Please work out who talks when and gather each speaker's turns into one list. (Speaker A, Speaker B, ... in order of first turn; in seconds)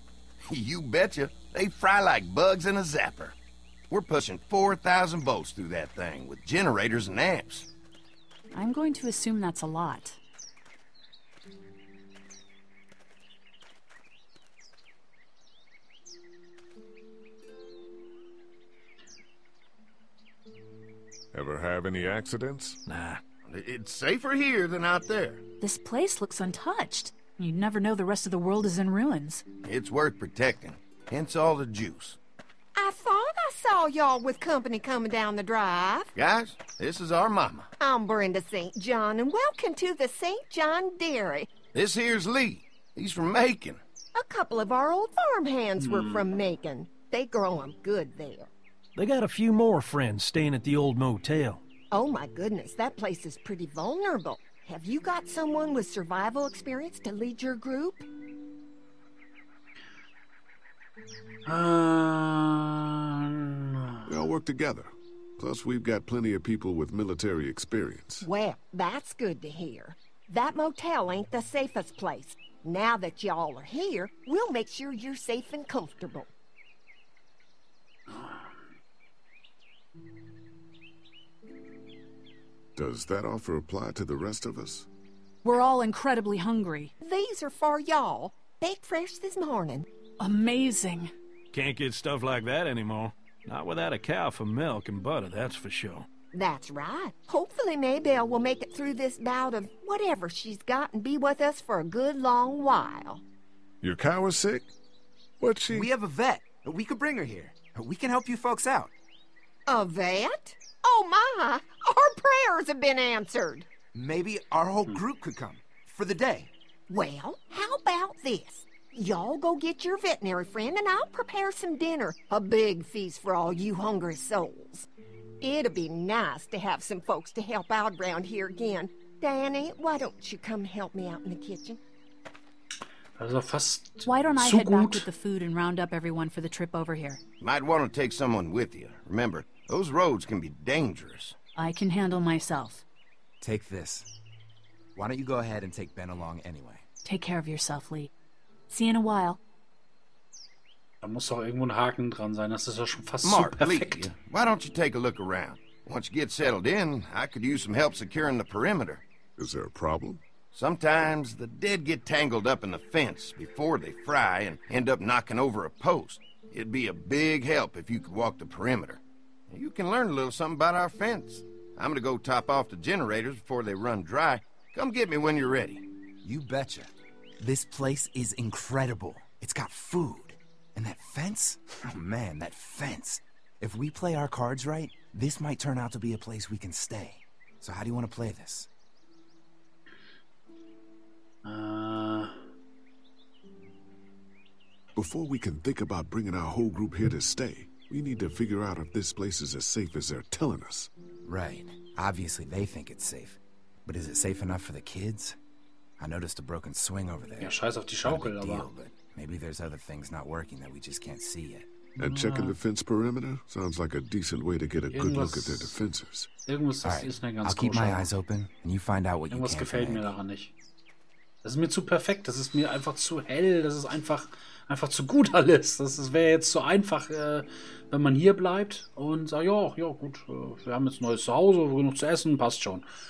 Speaker A: 0.5-3.4, 3.9-7.7, 23.5-25.4, 29.6-32.2, 36.1-37.7, 41.7-43.8, 137.4-141.4, 153.2-159.0, 160.5-175.8
Speaker B: 8.6-10.2, 25.6-29.4, 85.4-86.9, 90.2-91.1, 134.1-137.2, 141.6-142.8, 147.1-148.1, 148.7-149.4
Speaker C: 21.3-22.8, 64.1-68.3, 82.8-84.9, 103.8-104.7, 105.4-105.9, 159.4-160.2, 195.0-200.9, 212.0-216.3
Speaker D: 22.9-23.2, 49.0-51.6, 91.5-96.1
Speaker E: 32.8-36.1, 37.8-41.5, 44.2-48.5, 51.9-58.0, 68.2-76.3, 87.0-89.9, 96.3-103.2, 109.7-113.7, 116.9-124.9, 125.4-131.8
Speaker F: 45.8-46.3, 61.5-64.1, 78.1-78.5, 133.2-135.1, 151.0-154.1, 191.4-192.4, 207.4-208.7, 212.0-212.6, 214.9-215.8, 216.4-218.1, 219.3-220.5, 221.4-232.9
Speaker G: 105.7-108.9, 113.9-116.5, 143.4-144.1, 144.9-146.8, 176.2-188.7, 201.3-205.4, 206.0-211.7, 216.8-220.2